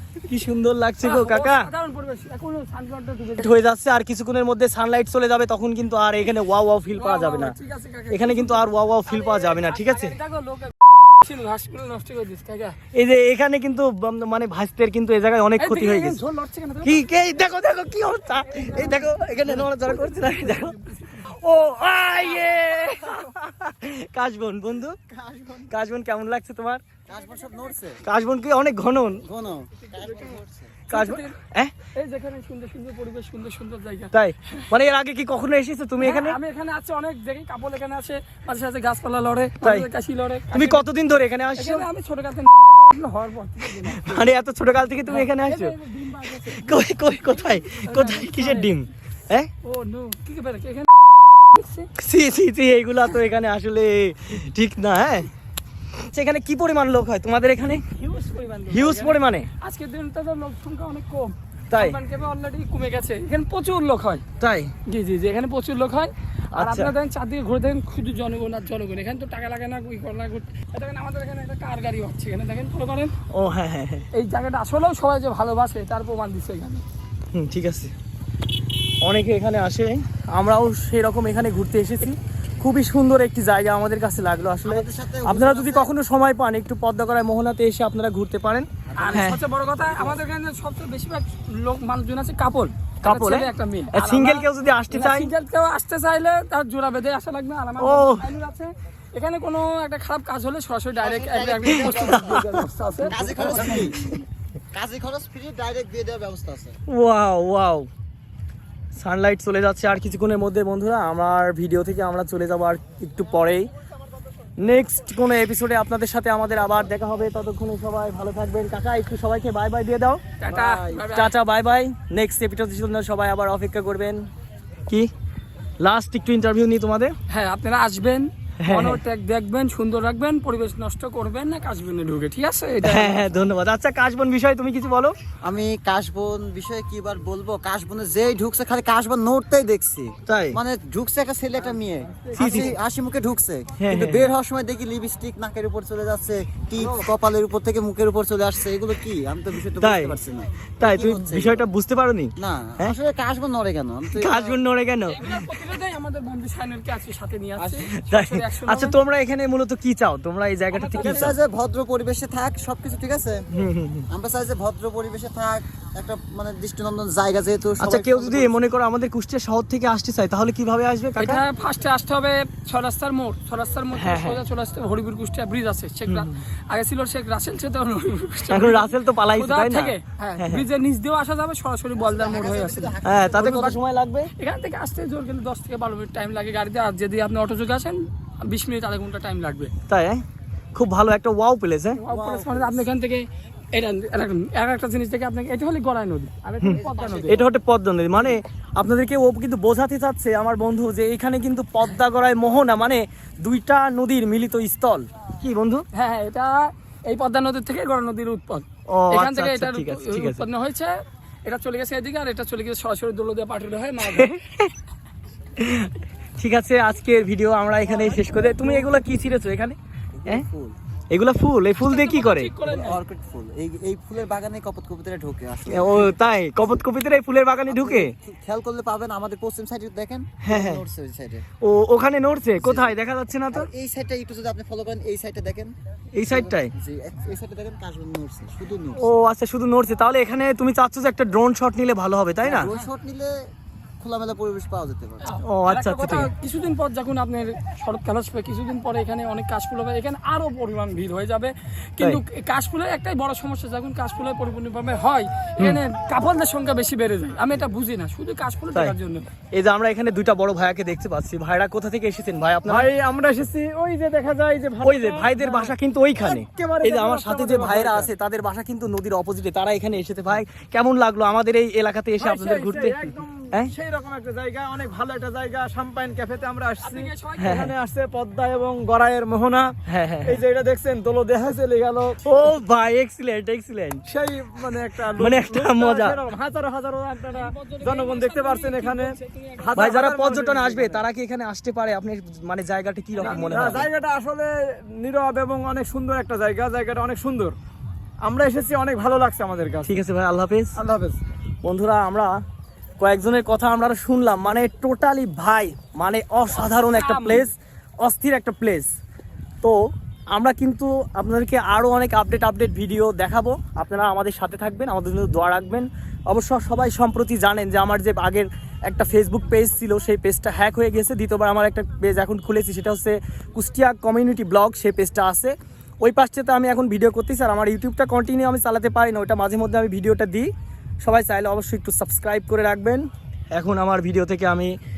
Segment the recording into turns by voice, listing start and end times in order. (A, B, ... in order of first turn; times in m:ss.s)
0:00.2-0:01.7 A
0:01.0-0:03.6 B
0:03.4-0:07.6 A
0:06.9-0:12.8 B
0:08.1-0:10.2 A
0:12.9-0:16.2 A
0:15.6-0:17.0 B
0:16.8-0:25.0 A
0:18.5-0:21.3 B
0:25.1-0:25.6 C
0:25.7-0:26.8 A
0:27.1-0:28.0 C
0:28.0-0:29.2 A
0:29.2-0:30.8 C
0:29.9-0:30.4 B
0:30.9-0:31.7 A
0:30.9-0:31.4 B
0:32.0-0:34.6 B
0:34.1-0:36.4 A
0:36.0-0:40.9 B
0:39.6-0:39.9 A
0:40.5-0:41.8 A
0:41.6-0:44.3 B
0:43.8-0:45.7 A
0:45.1-0:48.7 B
0:46.4-0:49.5 A
0:49.6-0:51.9 B
0:52.0-0:55.3 A
0:56.0-0:57.8 A
0:57.9-1:04.2 B
0:58.7-0:59.5 A
1:01.7-1:02.0 A
1:04.4-1:04.7 A
1:04.9-1:13.1 B
1:06.5-1:06.9 A
1:13.3-1:14.0 A
1:14.1-1:16.8 B
1:17.3-1:17.9 A
1:19.0-1:29.4 A
1:24.6-1:25.9 C
1:28.9-1:30.2 C
1:29.0-1:44.0 B
1:33.0-1:35.3 A
1:37.8-1:38.2 A
1:41.0-1:44.0 C
1:41.8-1:42.6 A
1:43.4-1:43.9 A
1:44.7-1:46.8 C
1:46.9-1:47.9 A
1:48.9-1:53.6 A
1:54.6-2:00.2 A
2:00.4-2:01.3 B
2:00.5-2:01.0 C
2:01.0-2:04.2 A
2:05.8-2:07.1 A
2:07.3-2:13.3 B
2:08.6-2:09.0 A
2:12.8-2:15.1 A
2:15.4-2:31.7 C
2:20.3-2:20.6 A
2:22.3-2:22.8 A
2:23.8-2:24.3 A
2:29.8-2:30.2 A
2:30.8-2:32.9 A
2:32.4-2:34.6 C
2:34.1-2:35.2 A
2:35.1-2:39.0 B
2:38.0-2:41.3 A
2:40.7-2:41.4 B
2:41.0-2:43.4 C
2:43.5-2:44.1 A
2:44.1-2:48.6 C
2:47.8-2:51.4 A
2:51.2-3:03.8 B
2:53.9-2:54.4 A
2:56.1-2:56.4 A
2:58.5-3:00.6 A
3:02.0-3:03.6 C
3:03.0-3:04.3 A
3:04.4-3:09.7 B
3:09.9-3:10.2 A
3:10.7-3:12.0 A
3:12.0-3:17.4 B
3:12.1-3:12.9 C
3:16.6-3:25.8 A
3:16.7-3:17.4 C
3:25.9-3:34.3 B
3:28.9-3:30.4 A
3:34.0-3:34.7 A
3:35.6-3:40.4 A
3:37.9-3:38.9 B
3:40.2-3:40.8 C
3:41.1-3:42.5 A
3:41.8-3:43.0 B
3:42.6-3:46.8 C
3:45.7-3:48.1 A
3:47.7-3:51.4 C
3:50.4-3:50.8 A
3:51.6-3:53.7 A
3:52.6-3:53.0 C
3:53.5-3:55.7 C
3:56.1-3:56.7 A
3:56.3-3:59.1 C
3:59.0-4:02.7 A
4:02.4-4:03.3 C
4:04.0-4:05.3 C
4:05.2-4:19.2 B
4:05.4-4:06.3 A
4:19.5-4:22.9 A
4:22.6-4:28.1 D
4:24.8-4:33.0 A
4:32.2-4:42.3 D
4:36.8-4:37.6 B
4:37.4-4:37.7 A
4:39.8-4:40.4 A
4:42.2-4:44.0 A
4:44.1-4:51.0 D
4:45.2-4:46.2 A
4:47.3-4:49.9 B
4:49.8-4:53.9 A
4:53.2-4:53.8 B
4:53.3-4:57.6 D
4:58.2-5:00.0 D
4:59.8-5:00.8 A
5:00.7-5:01.2 D
5:01.6-5:02.3 A
5:03.0-5:08.9 A
5:06.8-5:07.5 B
5:10.3-5:30.5 A
5:31.0-5:34.7 A